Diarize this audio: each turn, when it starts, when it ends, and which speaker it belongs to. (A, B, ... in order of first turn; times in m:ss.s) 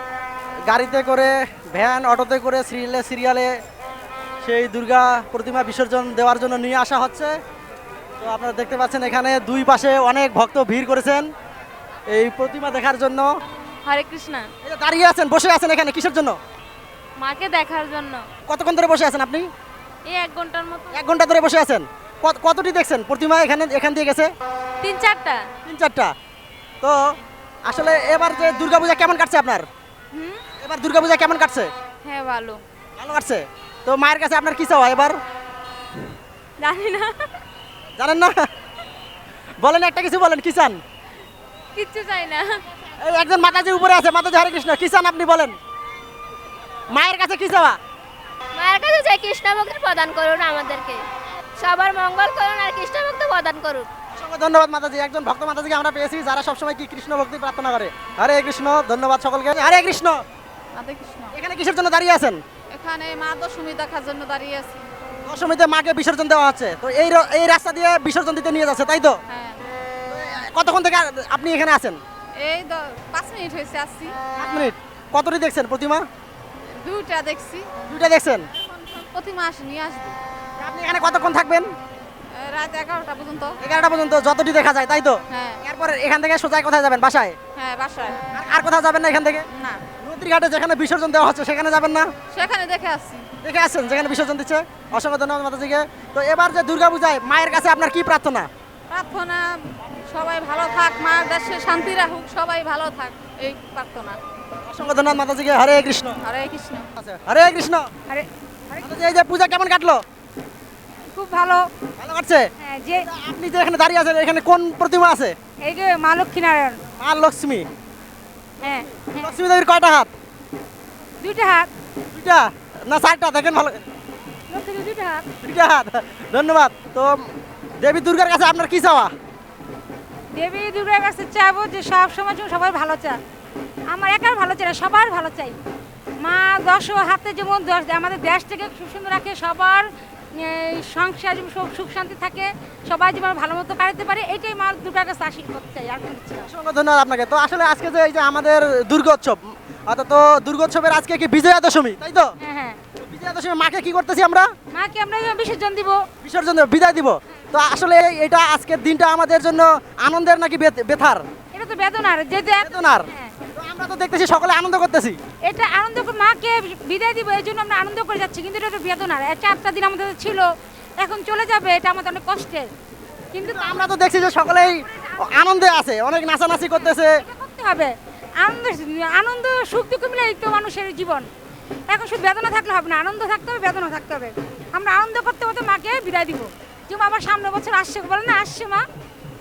0:00.7-0:03.6 A
0:04.4-0:07.4 A
0:08.2-0:11.3 A
0:12.1-0:13.4 A
0:13.8-0:14.5 B
0:14.6-0:16.4 A
0:17.2-0:18.3 B
0:18.5-0:19.5 A
0:20.1-0:21.0 B
0:20.9-0:24.3 A
0:24.8-0:25.5 B
0:25.6-0:26.1 A
0:27.7-0:29.7 A
0:30.6-0:31.7 A
0:32.0-0:32.6 B
0:33.0-0:35.2 A
0:36.6-0:37.3 B
0:38.0-0:38.5 A
0:39.6-0:40.8 A
0:41.8-0:42.6 B
0:43.0-0:45.6 A
0:46.9-0:47.8 A
0:48.5-0:51.0 C
0:51.6-0:53.9 C
0:54.1-1:00.2 A
1:00.8-1:01.4 D
1:01.3-1:02.4 A
1:02.7-1:04.9 D
1:05.3-1:09.2 A
1:09.3-1:09.6 D
1:10.1-1:12.0 A
1:12.4-1:14.2 D
1:14.4-1:16.1 A
1:16.7-1:17.9 D
1:17.9-1:18.5 A
1:18.5-1:20.2 D
1:20.6-1:21.7 A
1:22.3-1:23.6 D
1:23.6-1:27.4 A
1:25.3-1:25.6 D
1:27.6-1:28.3 D
1:28.3-1:29.5 A
1:29.5-1:29.9 D
1:30.0-1:32.1 A
1:32.3-1:33.3 D
1:33.4-1:38.5 A
1:38.9-1:44.2 D
1:44.7-1:46.2 A
1:46.2-1:46.9 D
1:47.0-1:47.9 A
1:48.1-1:48.9 E
1:48.8-1:50.0 A
1:51.1-1:51.7 E
1:52.0-1:52.5 A
1:52.6-1:53.1 E
1:53.1-1:55.4 A
1:55.6-1:56.8 E
1:57.0-1:57.7 A
1:58.6-1:59.4 E
1:59.1-2:00.1 A
2:01.2-2:01.7 E
2:02.1-2:03.8 A
2:04.5-2:05.3 E
2:05.4-2:07.3 A
2:07.8-2:09.1 A
2:10.3-2:13.2 E
2:13.9-2:15.6 E
2:16.2-2:26.5 E
2:26.4-2:32.4 A
2:32.4-2:32.8 E
2:33.0-2:34.5 A
2:34.7-2:36.0 E
2:36.2-2:41.2 A
2:41.5-2:43.4 E
2:42.6-2:45.2 A
2:45.5-2:52.7 E
2:53.3-2:54.0 E
2:53.4-2:57.2 A
2:55.0-2:55.4 E
2:56.7-3:01.3 E
3:01.9-3:08.8 E